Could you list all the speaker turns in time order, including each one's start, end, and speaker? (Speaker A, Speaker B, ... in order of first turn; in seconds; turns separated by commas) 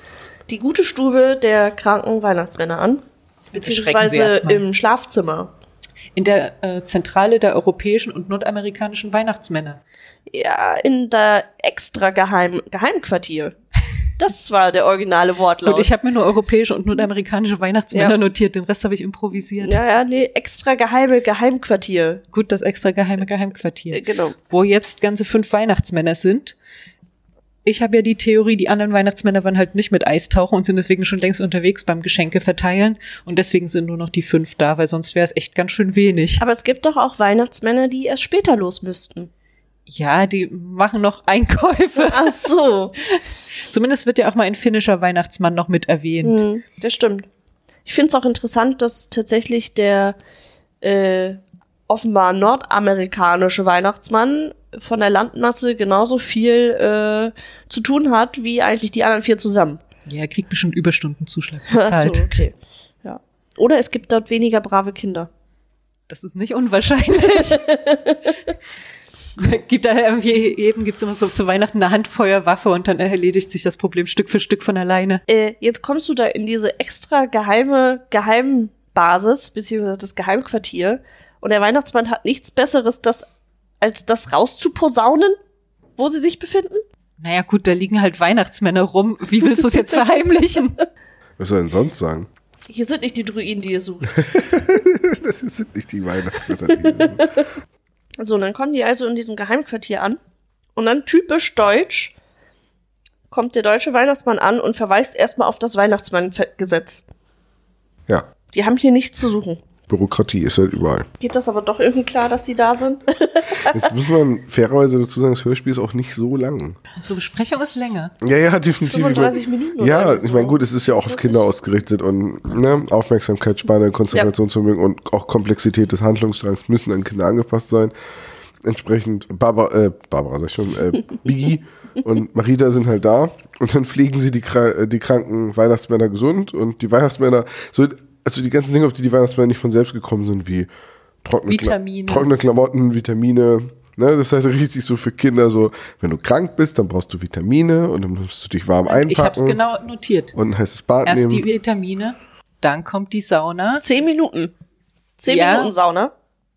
Speaker A: 0.5-3.0, Speaker B: 3.5-4.6, Speaker A: 3.5-5.5, Speaker B: 6.2-9.8, Speaker A: 10.3-13.5, Speaker A: 14.2-15.9, Speaker B: 15.6-19.8, Speaker A: 19.6-22.2, Speaker B: 22.3-26.5, Speaker A: 23.9-24.3, Speaker B: 27.6-36.4, Speaker A: 36.4-39.3, Speaker B: 39.9-42.5, Speaker A: 42.0-42.9, Speaker B: 43.0-46.4, Speaker A: 46.2-47.3, Speaker A: 47.9-50.1, Speaker A: 50.8-59.8, Speaker B: 60.1-62.4, Speaker A: 61.7-65.3, Speaker B: 66.1-67.7, Speaker A: 67.5-68.5, Speaker B: 69.4-75.2, Speaker A: 75.3-83.3, Speaker A: 83.8-85.4, Speaker A: 86.0-86.8, Speaker B: 87.2-90.8, Speaker C: 91.4-92.3, Speaker A: 92.7-94.2, Speaker C: 94.2-97.3, Speaker A: 96.8-97.4, Speaker A: 98.2-100.2, Speaker A: 100.8-102.1, Speaker A: 103.3-107.0, Speaker A: 108.5-109.6, Speaker C: 109.9-111.1, Speaker A: 111.2-113.8, Speaker C: 113.7-116.8, Speaker B: 117.0-118.1, Speaker C: 118.2-127.9, Speaker A: 118.8-121.4, Speaker C: 128.6-140.7, Speaker C: 141.2-149.6, Speaker B: 141.4-142.3, Speaker B: 148.8-150.3, Speaker C: 150.3-151.4, Speaker B: 151.0-153.8, Speaker A: 153.8-154.5, Speaker A: 155.2-156.1, Speaker B: 155.3-155.7